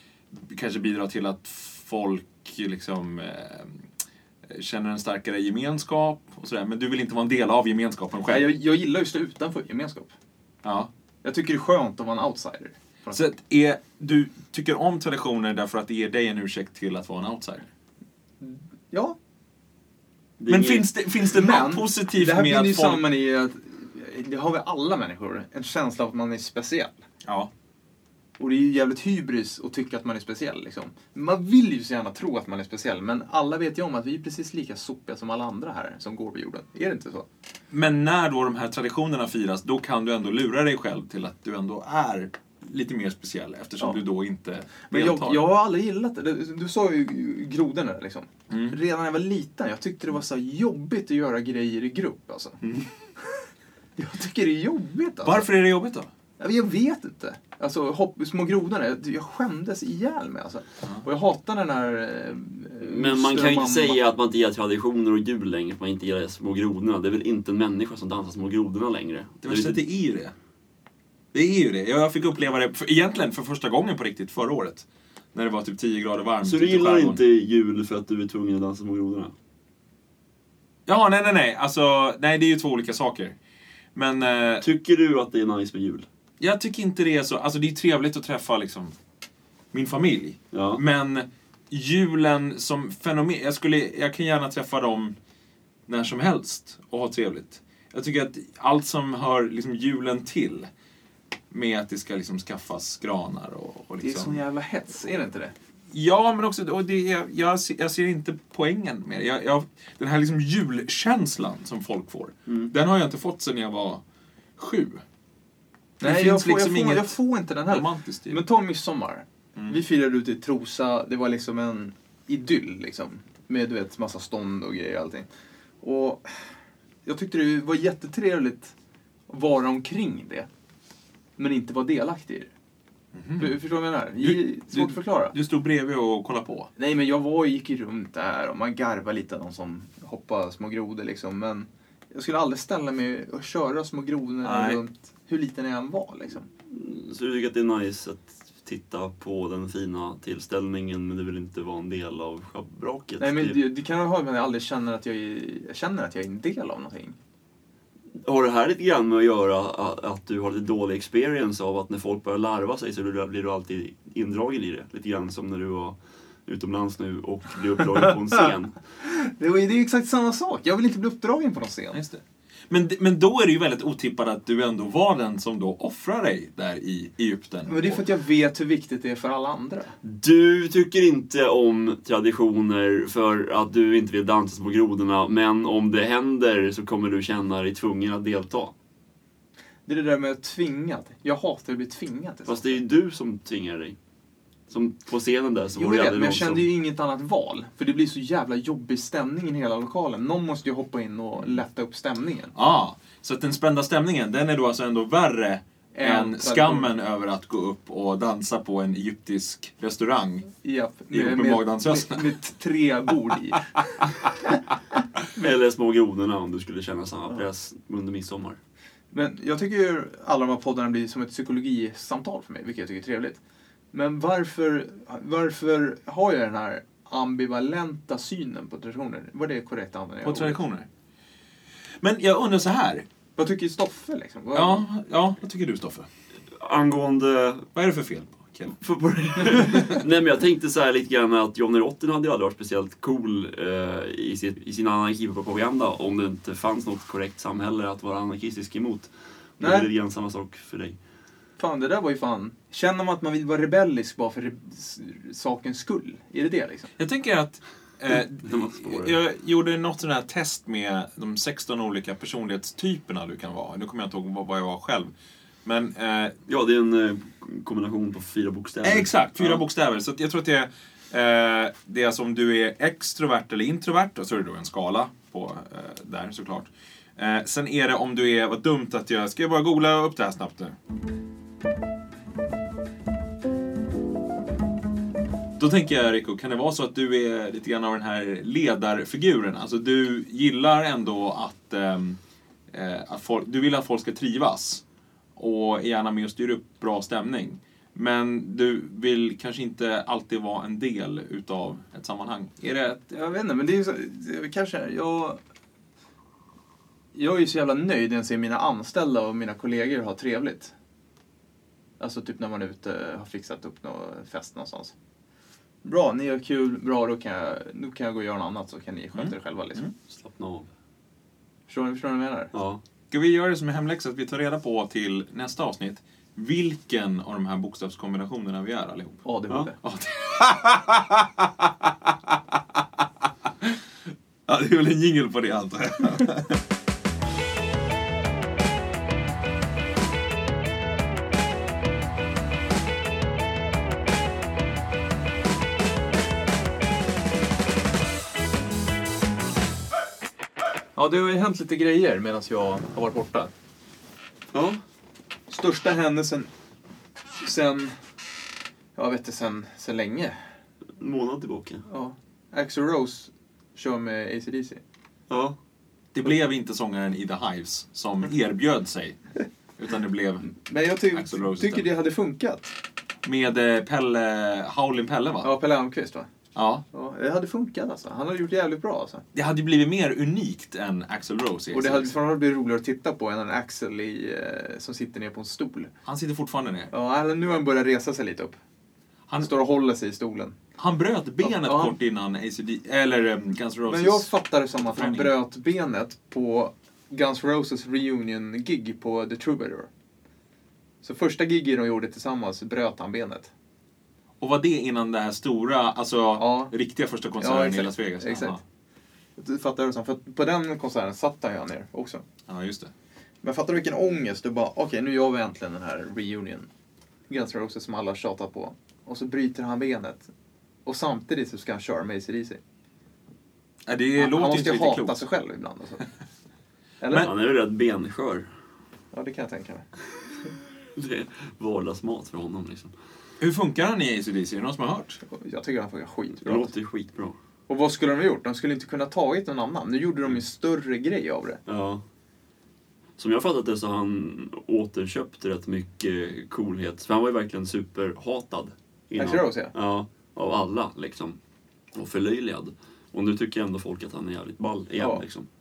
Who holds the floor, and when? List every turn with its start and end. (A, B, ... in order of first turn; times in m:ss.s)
0:00.3-0:03.8 A
0:04.5-0:08.5 A
0:08.2-0:10.1 B
0:10.6-0:10.9 A
0:11.2-0:13.2 B
0:13.1-0:17.7 A
0:18.4-0:19.2 B
0:20.4-0:20.8 C
0:20.5-0:23.0 A
0:21.2-0:27.0 B
0:27.2-0:27.5 A
0:28.4-0:37.2 B
0:37.7-0:45.4 A
0:44.9-0:52.6 B
0:48.5-0:48.8 A
0:52.6-0:52.9 A
0:54.0-0:55.5 B
0:55.2-0:56.1 A
0:56.4-1:04.0 B
1:02.8-1:09.8 C
1:09.4-1:10.3 A
1:11.3-1:17.2 A
1:16.4-1:19.3 C
1:20.9-1:23.3 A
1:23.9-1:24.6 A
1:24.6-1:26.1 C
1:26.4-1:28.9 A
1:29.7-1:35.1 A
1:30.5-1:30.8 C
1:35.9-1:40.7 A
1:41.5-1:44.4 A
1:44.0-1:45.5 B
1:45.9-1:54.0 A
1:54.6-1:55.0 A
1:56.0-1:58.4 A
1:56.0-2:05.3 B
2:05.8-2:06.4 B
2:07.0-2:08.7 B
2:09.3-2:10.5 B
2:11.4-2:12.5 B
2:13.1-2:13.6 A
2:13.4-2:15.3 B
2:14.2-2:16.7 A
2:16.8-2:26.5 B
2:24.4-2:24.8 A
2:26.7-2:33.6 C
2:33.2-2:37.2 B
2:38.2-2:48.7 C
2:49.0-2:52.0 B
2:51.9-2:58.0 A
2:57.7-3:00.0 B
3:00.0-3:08.7 C
3:09.9-3:12.8 B
3:12.4-3:14.0 C
3:14.7-3:16.6 C
3:15.8-3:22.5 B
3:22.5-3:30.5 A
3:25.9-3:26.9 B
3:30.6-3:34.0 B
3:31.1-3:32.3 A
3:35.4-3:38.6 C
3:39.1-3:43.4 B
3:43.9-3:50.6 B
3:50.2-3:50.9 A
3:52.0-3:53.0 A
3:53.4-3:54.8 B
3:54.5-3:56.1 A
3:56.5-3:57.7 C
3:57.7-3:58.8 A
3:58.8-4:11.0 C
3:59.6-4:00.0 A
4:09.6-4:09.9 B
4:11.6-4:16.9 B
4:17.0-4:25.1 A
4:18.1-4:19.2 C
4:25.6-4:26.4 A
4:26.5-4:29.6 C
4:28.8-4:40.7 A
4:45.6-4:52.2 A
4:52.7-4:54.8 A
4:55.4-5:03.0 A
5:03.0-5:05.4 B
5:07.1-5:10.7 B
5:12.0-5:14.9 B
5:15.8-5:19.9 B
5:19.1-5:19.9 A
5:20.1-5:20.7 C
5:21.7-5:22.5 B
5:22.5-5:22.8 C
5:23.1-5:29.2 A
5:29.2-5:29.8 B
5:29.8-5:31.9 A
5:34.5-5:36.6 A
5:51.0-5:53.5 B
5:54.5-5:54.8 C
5:55.5-5:56.5 B
5:57.4-5:58.0 B
5:59.0-6:00.4 B
6:01.0-6:01.8 C
6:01.9-6:04.8 B
6:05.3-6:05.6 C
6:06.1-6:09.2 A
6:09.8-6:10.5 A
6:10.5-6:12.7 B
6:11.1-6:11.9 A
6:13.2-6:15.5 A
6:15.4-6:16.3 B
6:16.5-6:16.8 A
6:16.9-6:19.2 B
6:19.3-6:22.1 A
6:21.7-6:25.9 B
6:26.0-6:26.9 A
6:26.9-6:28.6 B
6:29.4-6:30.6 B
6:30.8-6:35.3 A
6:31.4-6:32.0 B
6:33.9-6:39.9 B
6:41.0-6:43.5 B
6:44.4-6:48.6 A
6:46.4-6:46.7 B
6:47.4-6:48.6 B
6:49.4-6:52.2 B
6:52.5-6:52.9 A
6:53.4-6:56.7 B
6:57.3-7:00.3 B
7:00.8-7:02.6 B
7:03.9-7:05.2 A
7:04.2-7:06.0 B
7:07.0-7:07.3 B
7:07.2-7:08.5 C
7:09.1-7:09.8 B
7:10.9-7:12.9 C
7:13.4-7:15.2 A
7:15.3-7:16.7 B
7:16.3-7:17.4 C
7:17.7-7:21.6 B
7:21.7-7:22.0 C
7:23.2-7:31.4 C
7:29.2-7:29.7 B
7:31.9-7:35.5 C